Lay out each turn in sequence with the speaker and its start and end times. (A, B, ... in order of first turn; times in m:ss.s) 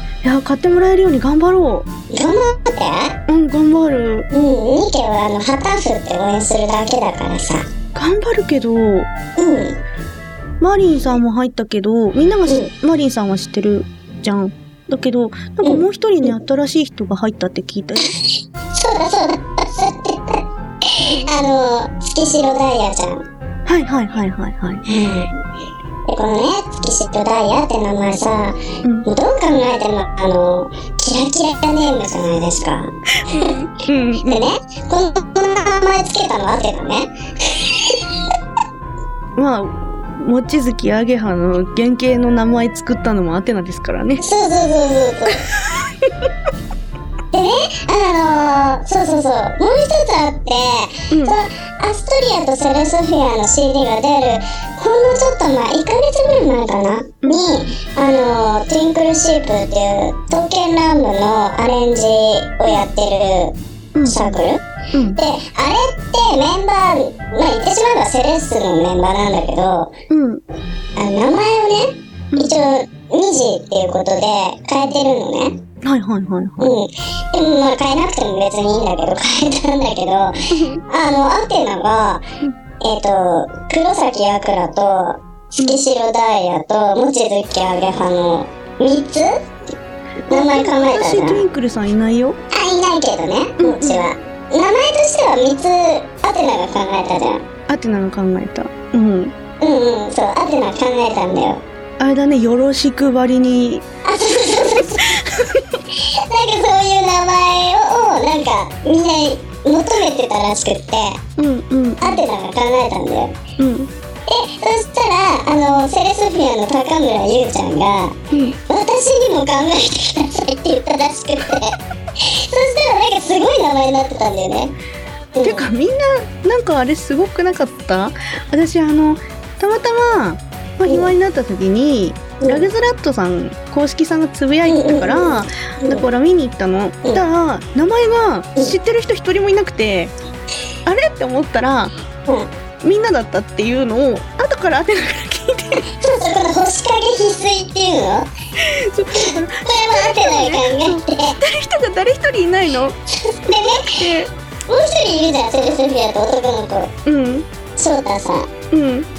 0:00.2-0:01.9 A
0:02.1-0:03.2 B
0:03.3-0:04.3 A
0:04.3-0:07.6 B
0:08.0-0:09.1 A
0:09.4-0:09.8 B
0:10.6-0:18.1 A
0:15.6-0:16.3 B
0:18.2-0:23.2 B
0:23.7-0:24.8 A
0:24.9-0:25.4 B
0:26.1-0:33.5 B
0:33.2-0:34.5 A
0:34.2-0:38.0 B
0:39.4-0:44.2 A
0:44.2-0:45.4 B
0:45.5-0:46.3 A
0:47.3-1:03.6 B
0:51.1-0:51.4 A
0:57.2-0:57.5 A
1:04.0-1:04.4 A
1:04.1-1:04.6 B
1:04.9-1:05.2 A
1:05.2-1:09.9 B
1:10.1-1:10.4 A
1:11.0-1:15.6 B
1:12.3-1:12.7 A
1:15.8-1:16.7 A
1:16.6-1:20.4 B
1:20.5-1:20.8 A
1:20.9-1:22.3 B
1:22.8-1:29.3 B
1:30.3-1:31.4 B
1:30.3-1:32.4 A
1:32.5-1:37.4 B
1:33.6-1:34.1 A
1:37.7-1:39.4 A
1:39.6-1:41.6 B
1:42.0-1:43.8 A
1:44.1-1:45.1 B
1:44.8-1:45.8 A
1:46.0-1:51.2 B
1:51.4-1:52.2 A
1:52.0-1:53.4 B
1:53.6-1:53.9 A
1:54.3-1:58.2 B
1:58.7-2:04.7 B
2:05.4-2:05.7 B
2:05.4-2:20.1 A
2:10.9-2:11.1 B
2:12.4-2:12.7 B
2:14.7-2:16.0 B
2:20.9-2:21.9 A
2:22.8-2:25.9 A
2:26.0-2:28.3 B
2:28.6-2:33.0 A
2:29.1-2:31.4 B
2:33.2-2:34.0 B
2:33.5-2:34.3 A
2:34.7-2:36.9 B
2:37.0-2:37.4 A
2:37.8-2:38.5 B
2:38.7-2:39.1 A